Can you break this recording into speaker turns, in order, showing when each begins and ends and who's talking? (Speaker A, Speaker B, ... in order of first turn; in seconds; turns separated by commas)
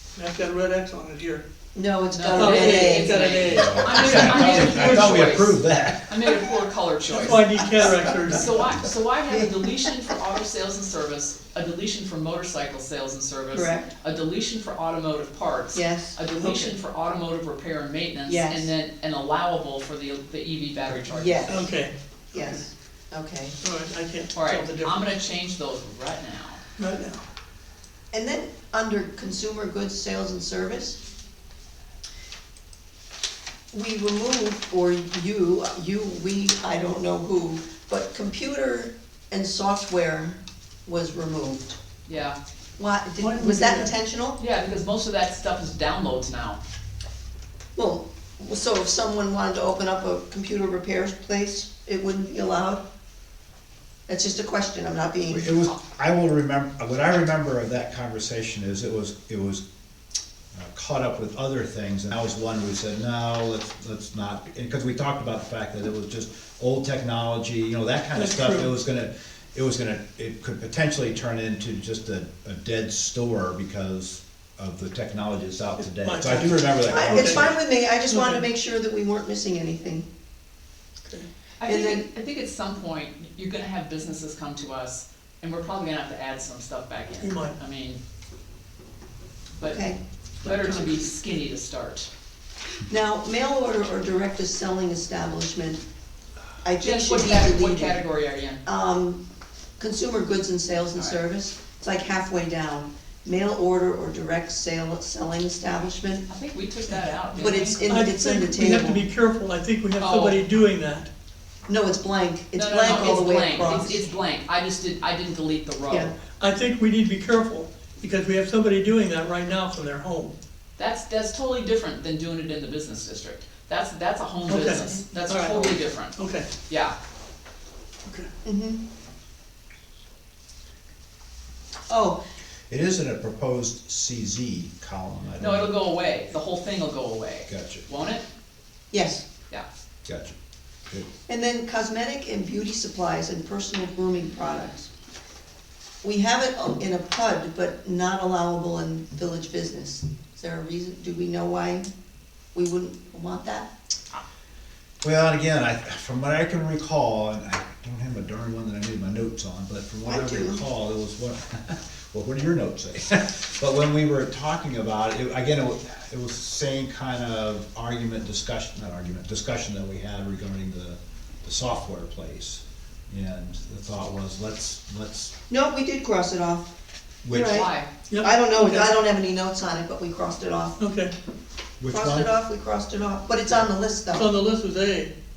Speaker A: 0.1-1.4, Speaker B: 1.7-3.5, Speaker C: 2.1-21.7, Speaker A: 2.3-5.3, Speaker D: 3.5-6.5, Speaker A: 7.1-8.4, Speaker B: 9.3-9.6, Speaker B: 13.5-13.9, Speaker B: 15.7-16.1, Speaker A: 16.4-16.7, Speaker B: 18.2-18.7, Speaker B: 21.1-21.7, Speaker A: 21.5-22.6, Speaker B: 22.3-23.6, Speaker A: 23.6-25.1, Speaker C: 24.3-26.6, Speaker A: 26.8-27.2, Speaker B: 28.1-31.0, Speaker B: 33.7-41.8, Speaker C: 42.1-42.4, Speaker B: 42.8-44.4, Speaker A: 43.2-43.9, Speaker C: 44.4-46.6, Speaker B: 47.7-52.8, Speaker B: 54.1-55.5, Speaker D: 55.3-59.6, Speaker D: 60.5-77.6, Speaker A: 68.1-68.7, Speaker A: 75.8-77.5, Speaker B: 76.9-80.1, Speaker A: 78.1-78.4, Speaker C: 81.6-88.0, Speaker B: 81.6-82.0, Speaker A: 87.2-87.6, Speaker C: 89.6-89.8, Speaker B: 89.6-90.0, Speaker C: 90.4-92.1, Speaker D: 90.4-90.8, Speaker B: 92.9-95.8, Speaker B: 96.6-98.0, Speaker C: 96.8-98.6, Speaker B: 98.7-99.2, Speaker B: 99.8-106.2, Speaker C: 106.3-107.8, Speaker B: 107.3-109.0, Speaker A: 107.4-111.1, Speaker C: 110.0-110.4, Speaker B: 111.7-114.1, Speaker C: 112.5-116.1, Speaker A: 112.7-113.2, Speaker A: 116.4-120.3, Speaker C: 120.8-126.9, Speaker A: 124.5-126.5, Speaker B: 128.4-128.8, Speaker B: 131.9-132.2, Speaker D: 132.7-135.7, Speaker C: 135.4-138.2, Speaker D: 137.5-137.8, Speaker B: 138.9-139.3, Speaker D: 140.1-140.3, Speaker B: 141.3-144.9, Speaker B: 146.0-151.9, Speaker B: 152.5-153.7, Speaker D: 155.0-175.3, Speaker B: 160.1-160.6, Speaker B: 175.5-176.7, Speaker D: 177.2-177.7, Speaker B: 177.3-177.7, Speaker C: 177.3-177.9, Speaker A: 178.1-178.9, Speaker B: 178.2-180.8, Speaker A: 180.8-181.1, Speaker D: 181.8-182.3, Speaker B: 181.9-184.3, Speaker A: 184.1-185.1